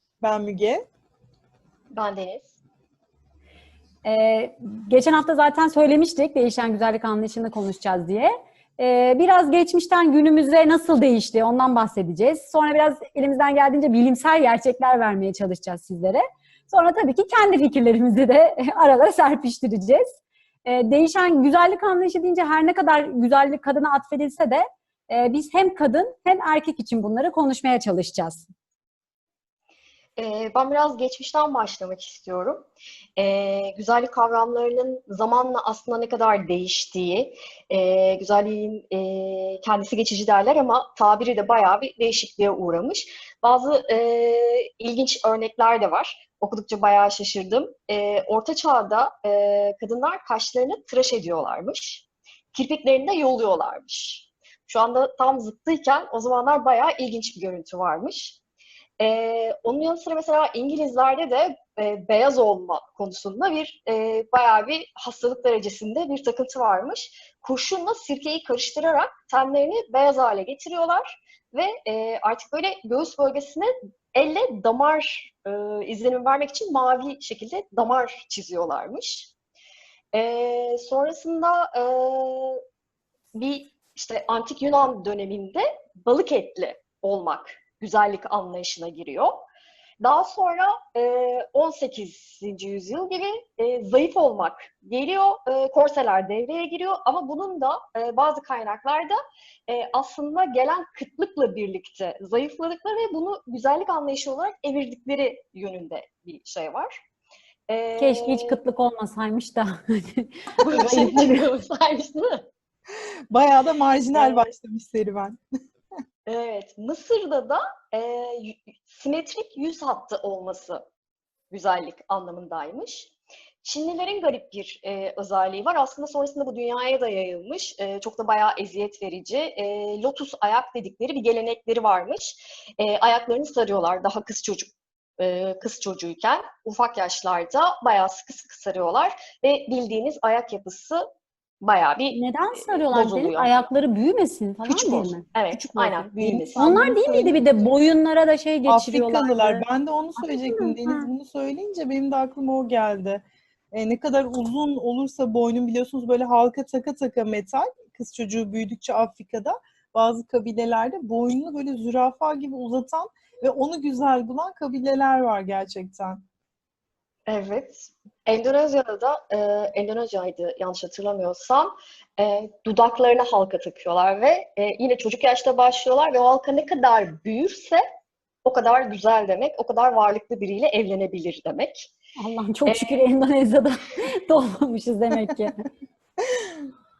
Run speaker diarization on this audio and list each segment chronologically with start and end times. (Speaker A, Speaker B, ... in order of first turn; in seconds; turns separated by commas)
Speaker A: 0.2-0.9, Speaker B: 1.9-2.6, Speaker C: 4.0-28.5, Speaker B: 30.2-58.4, Speaker B: 59.0-79.3, Speaker B: 80.1-82.6, Speaker B: 83.3-89.5, Speaker B: 90.0-107.0, Speaker B: 107.7-108.6, Speaker C: 108.0-111.4, Speaker B: 110.6-112.5, Speaker A: 112.9-115.4, Speaker B: 114.1-114.5, Speaker B: 116.3-120.8, Speaker B: 121.5-141.1, Speaker B: 141.6-143.7, Speaker C: 142.1-149.7, Speaker B: 144.7-146.9, Speaker A: 146.2-147.4, Speaker A: 148.7-166.2, Speaker C: 150.2-151.1, Speaker B: 167.3-177.8, Speaker B: 178.4-181.9, Speaker C: 182.2-185.6, Speaker B: 182.7-183.0, Speaker A: 186.3-186.6